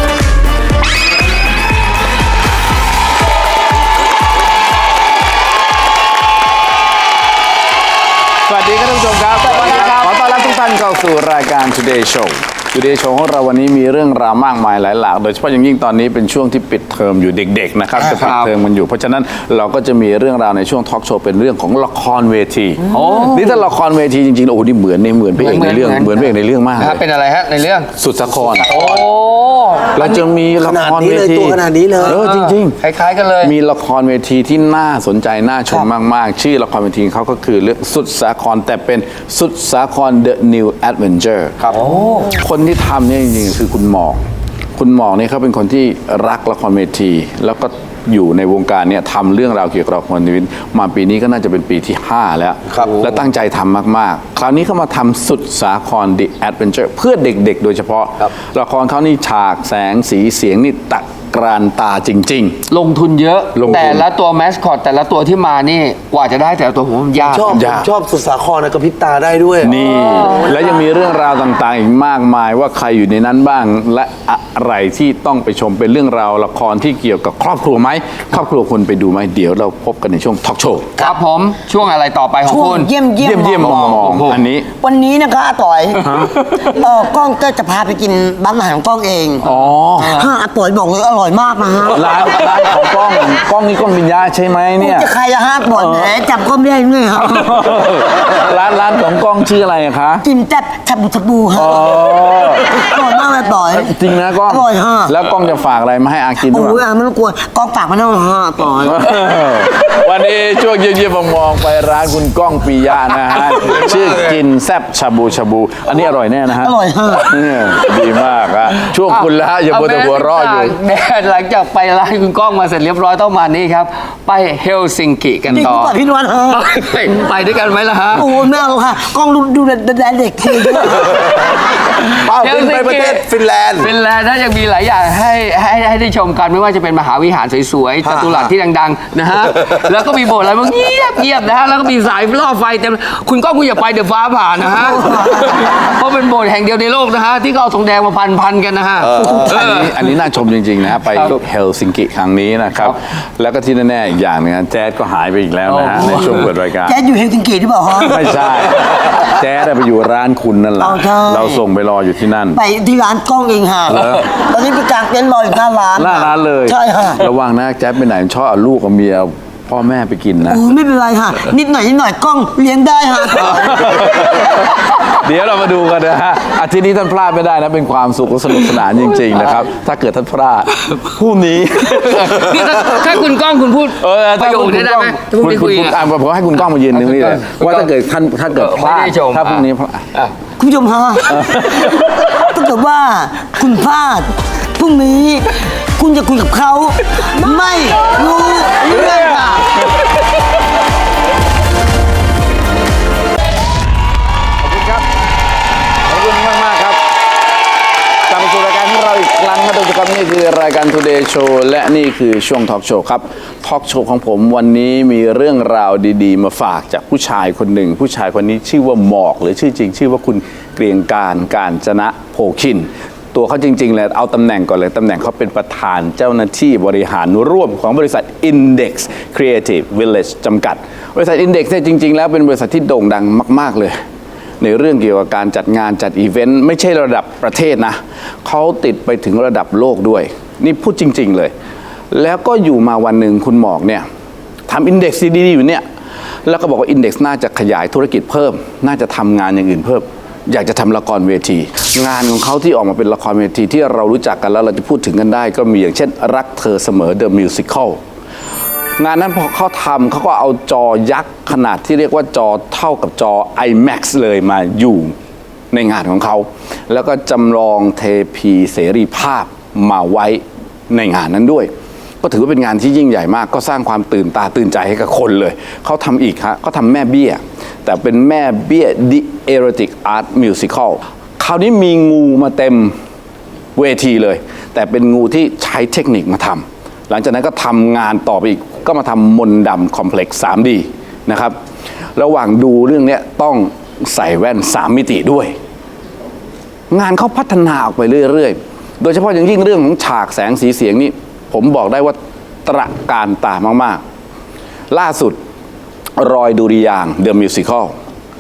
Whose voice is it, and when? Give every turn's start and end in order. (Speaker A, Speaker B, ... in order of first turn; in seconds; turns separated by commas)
Speaker A: 8.4-27.0, Speaker B: 9.5-10.2, Speaker B: 18.0-18.5, Speaker B: 22.9-23.6, Speaker B: 25.4-27.9, Speaker A: 28.0-28.9, Speaker B: 28.5-30.0, Speaker A: 29.9-32.8, Speaker C: 30.0-32.2, Speaker B: 32.0-33.5, Speaker A: 33.4-44.2, Speaker B: 41.7-42.3, Speaker A: 44.8-62.7, Speaker B: 62.7-67.6, Speaker A: 63.5-64.1, Speaker D: 67.2-69.8, Speaker A: 67.5-67.9, Speaker A: 69.6-81.1, Speaker B: 70.1-70.4, Speaker B: 81.0-82.9, Speaker C: 82.5-84.2, Speaker A: 83.2-84.7, Speaker B: 84.0-84.4, Speaker C: 84.8-89.5, Speaker A: 89.4-90.3, Speaker C: 90.0-92.5, Speaker A: 91.9-95.1, Speaker C: 94.8-97.8, Speaker A: 95.7-96.1, Speaker A: 97.2-100.2, Speaker C: 100.2-103.9, Speaker A: 101.5-102.9, Speaker A: 103.7-106.8, Speaker C: 104.5-105.1, Speaker C: 106.5-109.4, Speaker A: 108.8-120.8, Speaker C: 116.6-117.3, Speaker B: 119.1-126.0, Speaker C: 125.5-126.8, Speaker B: 126.5-128.3, Speaker C: 128.1-131.2, Speaker D: 132.2-133.9, Speaker B: 132.3-150.0, Speaker D: 138.0-138.5, Speaker C: 144.7-145.5, Speaker C: 149.2-149.6, Speaker A: 149.4-157.0, Speaker B: 155.7-156.4, Speaker C: 156.0-156.3, Speaker C: 156.8-159.0, Speaker A: 158.0-162.6, Speaker C: 160.8-161.6, Speaker C: 162.5-167.2, Speaker A: 163.9-164.2, Speaker A: 165.9-170.7, Speaker C: 170.5-174.4, Speaker A: 173.5-183.2, Speaker B: 181.9-186.1, Speaker A: 184.0-190.1, Speaker B: 187.0-187.9, Speaker B: 188.5-190.3, Speaker C: 190.6-199.7, Speaker A: 191.3-192.1, Speaker A: 198.9-199.6, Speaker A: 204.6-205.1, Speaker A: 206.1-207.1, Speaker A: 208.3-234.0, Speaker A: 234.6-241.5, Speaker A: 242.1-244.1, Speaker A: 244.7-245.8, Speaker A: 246.4-258.0, Speaker A: 259.0-265.1, Speaker A: 265.7-283.0, Speaker A: 283.8-291.6, Speaker A: 292.2-295.6, Speaker A: 296.9-304.0, Speaker A: 304.9-305.4, Speaker A: 306.2-308.0